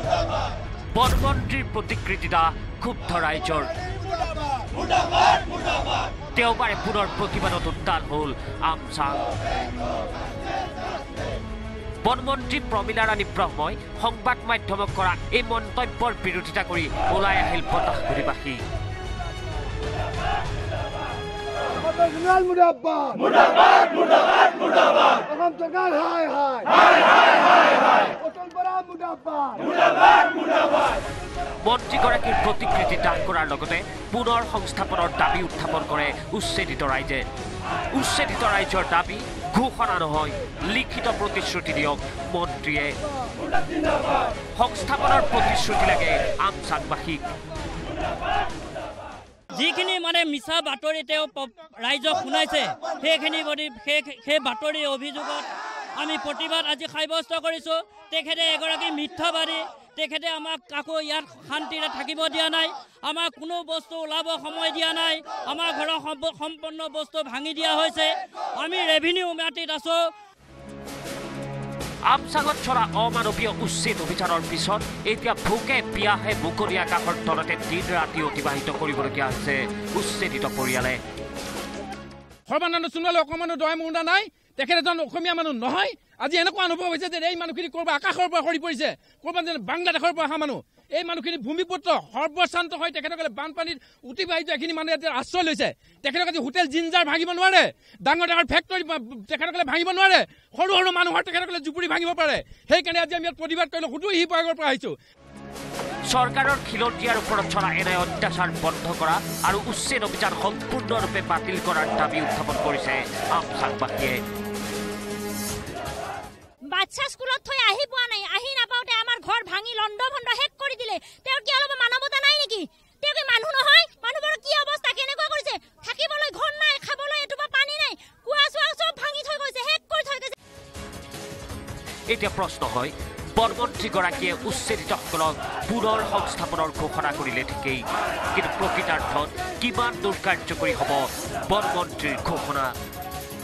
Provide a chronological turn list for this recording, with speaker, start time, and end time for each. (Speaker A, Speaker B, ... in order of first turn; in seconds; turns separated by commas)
Speaker A: 0.9-3.7, Speaker A: 6.3-9.3, Speaker A: 12.0-18.6, Speaker B: 22.2-23.1, Speaker B: 25.4-26.4, Speaker B: 28.5-29.5, Speaker A: 31.6-37.3, Speaker A: 37.9-43.0, Speaker A: 44.5-47.2, Speaker C: 49.5-70.1, Speaker A: 72.1-81.0, Speaker D: 82.5-105.0, Speaker A: 106.1-114.2, Speaker E: 116.7-130.4, Speaker A: 132.1-142.7